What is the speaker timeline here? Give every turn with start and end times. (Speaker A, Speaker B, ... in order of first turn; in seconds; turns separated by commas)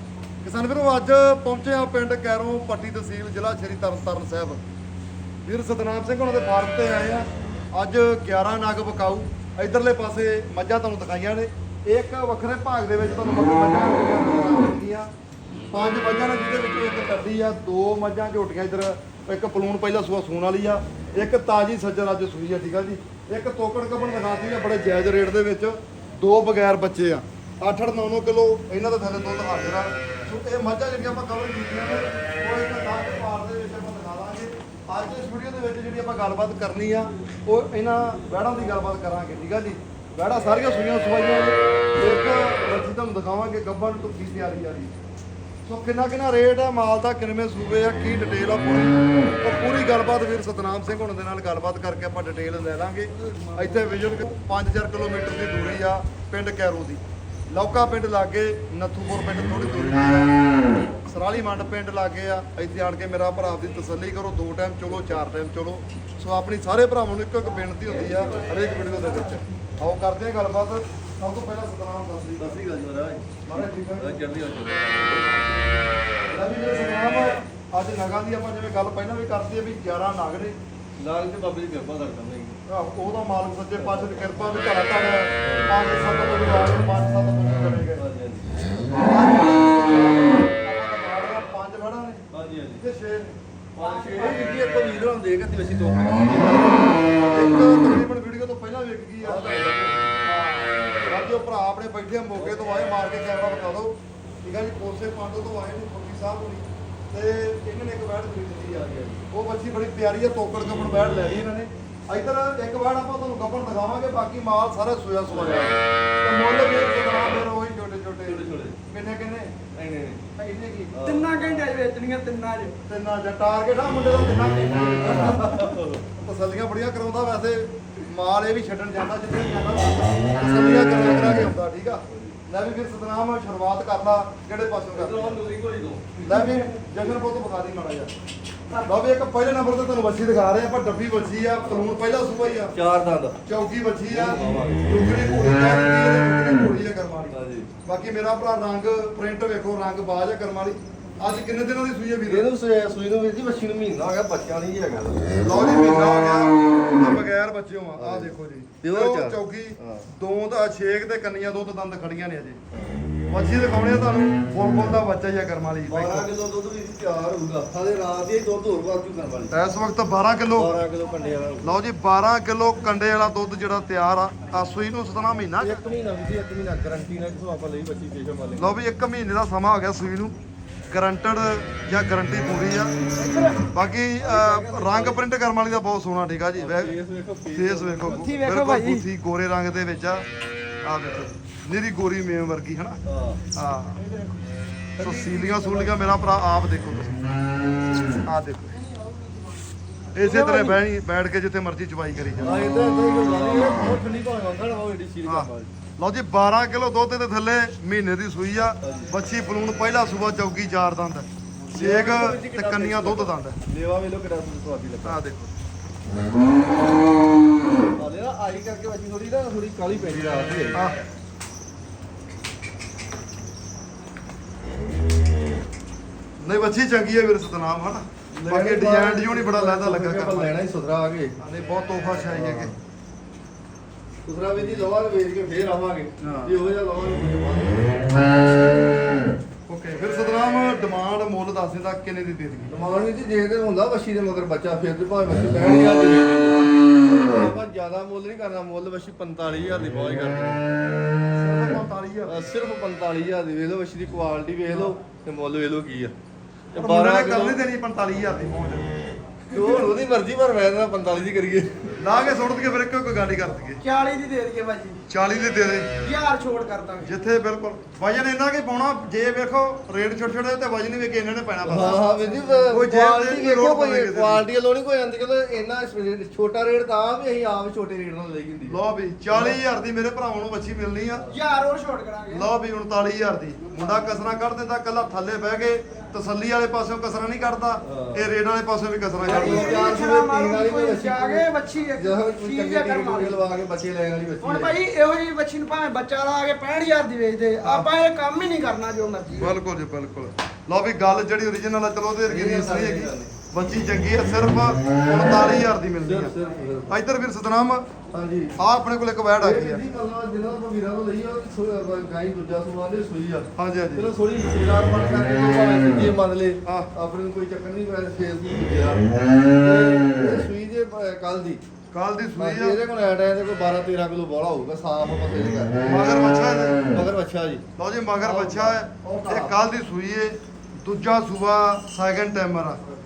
Speaker A: 0.4-4.6, Speaker A: 5.5-15.1, Speaker A: 15.7-44.9, Speaker A: 45.6-60.3, Speaker B: 53.2-54.0, Speaker A: 61.1-72.6, Speaker B: 68.0-69.3, Speaker C: 72.4-73.3, Speaker A: 73.5-74.2, Speaker C: 74.0-75.3, Speaker A: 75.0-75.7, Speaker A: 76.3-80.6, Speaker C: 81.0-82.6, Speaker A: 82.7-88.0, Speaker C: 83.8-84.3, Speaker C: 85.4-85.7, Speaker C: 88.0-88.5, Speaker A: 89.0-92.2, Speaker C: 92.3-92.8, Speaker A: 92.8-93.4, Speaker C: 93.8-96.8, Speaker B: 93.8-94.5, Speaker A: 96.3-96.8, Speaker A: 97.3-99.5, Speaker C: 99.2-100.3, Speaker A: 100.2-119.5, Speaker C: 108.8-109.2, Speaker C: 115.3-115.8, Speaker C: 118.2-118.8, Speaker C: 119.8-120.2, Speaker A: 120.4-121.0, Speaker C: 120.9-121.6, Speaker B: 121.0-122.8, Speaker A: 122.9-135.4, Speaker C: 125.0-126.0, Speaker C: 132.1-132.4, Speaker C: 134.9-136.2, Speaker B: 136.2-136.8, Speaker A: 136.2-138.1, Speaker A: 138.9-142.8, Speaker C: 142.7-143.4, Speaker A: 143.5-152.5, Speaker C: 144.1-144.8, Speaker C: 147.3-147.7, Speaker C: 152.3-155.3, Speaker A: 155.4-162.6, Speaker C: 158.0-160.1, Speaker C: 162.7-163.0, Speaker A: 163.3-166.3, Speaker C: 165.9-169.5, Speaker A: 169.5-170.7, Speaker C: 170.6-171.8, Speaker A: 171.6-175.8, Speaker C: 175.6-178.8, Speaker A: 178.6-180.3, Speaker A: 180.9-182.9, Speaker B: 183.2-183.7, Speaker A: 183.7-187.0, Speaker C: 184.2-185.2, Speaker C: 186.6-188.3, Speaker A: 187.5-190.2, Speaker B: 188.0-189.1, Speaker A: 190.8-193.0, Speaker C: 193.1-193.4, Speaker A: 193.6-194.0, Speaker B: 194.0-194.5, Speaker C: 195.0-196.2, Speaker A: 195.0-197.2, Speaker A: 198.3-198.8, Speaker B: 198.9-199.2, Speaker A: 200.1-202.6, Speaker B: 200.2-200.8, Speaker C: 202.4-205.7, Speaker A: 205.2-213.6, Speaker C: 208.8-209.1, Speaker C: 211.7-215.2, Speaker A: 215.0-215.5, Speaker C: 218.0-220.8, Speaker A: 226.4-230.5, Speaker C: 228.3-231.3, Speaker A: 231.4-232.7, Speaker C: 232.3-232.7, Speaker C: 234.2-238.2, Speaker A: 236.2-236.6, Speaker A: 239.7-242.7, Speaker C: 242.7-246.7, Speaker C: 247.2-250.6, Speaker A: 251.4-252.4, Speaker C: 252.3-256.1, Speaker C: 256.7-257.6, Speaker A: 256.8-258.9, Speaker C: 259.5-261.9, Speaker A: 262.0-263.8, Speaker B: 263.8-265.0, Speaker A: 265.1-265.9, Speaker B: 266.0-267.1, Speaker A: 267.0-272.1, Speaker C: 271.6-278.8, Speaker A: 272.7-274.5, Speaker A: 278.7-281.2, Speaker C: 279.3-279.6, Speaker B: 281.3-282.5, Speaker A: 282.3-289.8, Speaker B: 283.8-284.1, Speaker C: 287.8-288.3, Speaker C: 289.2-294.8, Speaker B: 289.3-293.5, Speaker B: 294.4-299.6, Speaker A: 297.6-297.9, Speaker A: 299.3-306.4, Speaker C: 302.3-303.3, Speaker C: 306.0-307.0, Speaker A: 306.9-307.9, Speaker C: 308.1-308.6, Speaker A: 308.6-309.9, Speaker C: 309.4-321.6, Speaker A: 313.6-314.1, Speaker A: 321.9-322.8, Speaker C: 322.4-325.8, Speaker A: 325.8-326.9, Speaker C: 326.9-327.6, Speaker A: 327.8-332.8, Speaker C: 328.2-329.6